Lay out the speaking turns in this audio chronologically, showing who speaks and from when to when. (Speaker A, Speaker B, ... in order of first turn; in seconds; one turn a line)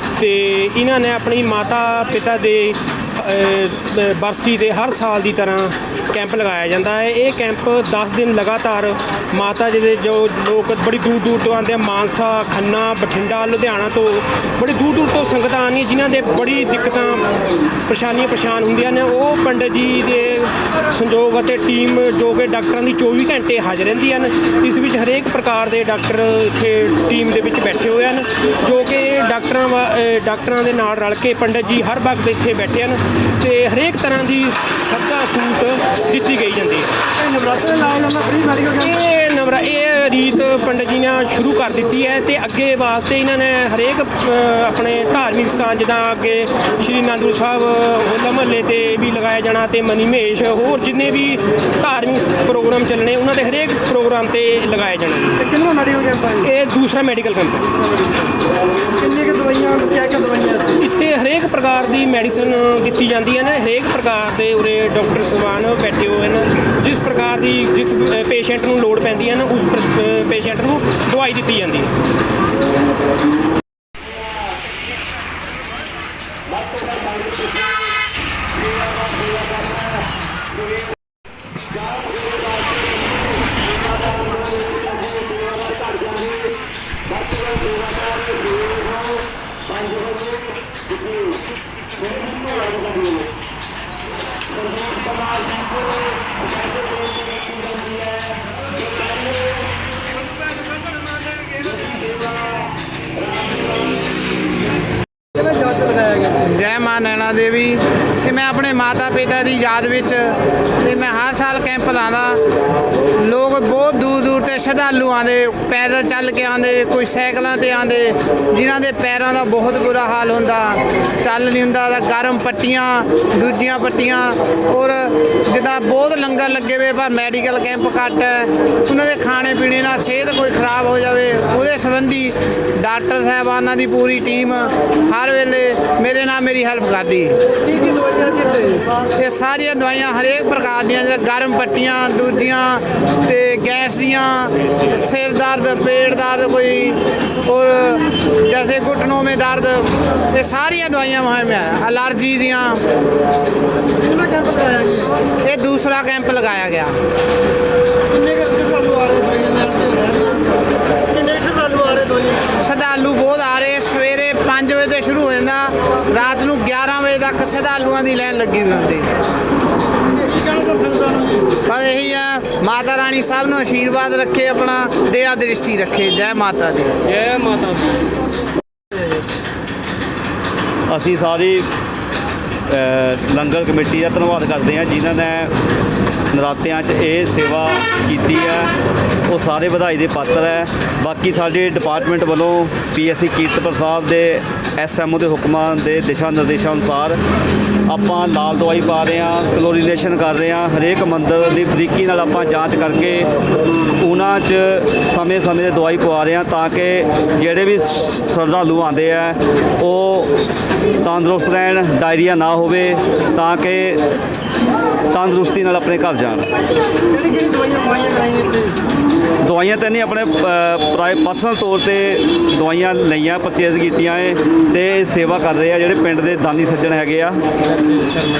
Speaker A: 0.2-17.2
Speaker A: 17.9-36.9
Speaker B: 37.1-38.9
Speaker A: 38.8-55.5
Speaker B: 55.4-56.5
Speaker A: 56.4-57.7
Speaker B: 59.0-60.8
Speaker A: 60.7-71.9
Speaker B: 101.0-101.7
Speaker B: 105.4-106.4
Speaker C: 106.4-112.4
Speaker C: 113.2-137.4
Speaker B: 137.7-139.0
Speaker C: 139.2-152.8
Speaker B: 154.0-155.1
Speaker C: 155.4-157.0
Speaker B: 158.1-162.6
Speaker C: 162.6-169.1
Speaker B: 170.1-171.5
Speaker C: 171.7-176.9
Speaker D: 177.1-177.9
Speaker D: 180.9-181.7
Speaker D: 182.7-185.5
Speaker D: 186.3-188.7
Speaker D: 189.3-197.2
Speaker D: 197.9-203.3
Speaker D: 204.0-210.3
Speaker D: 211.0-214.0
Speaker D: 215.1-216.5
Speaker B: 217.1-218.8
Speaker D: 219.4-227.4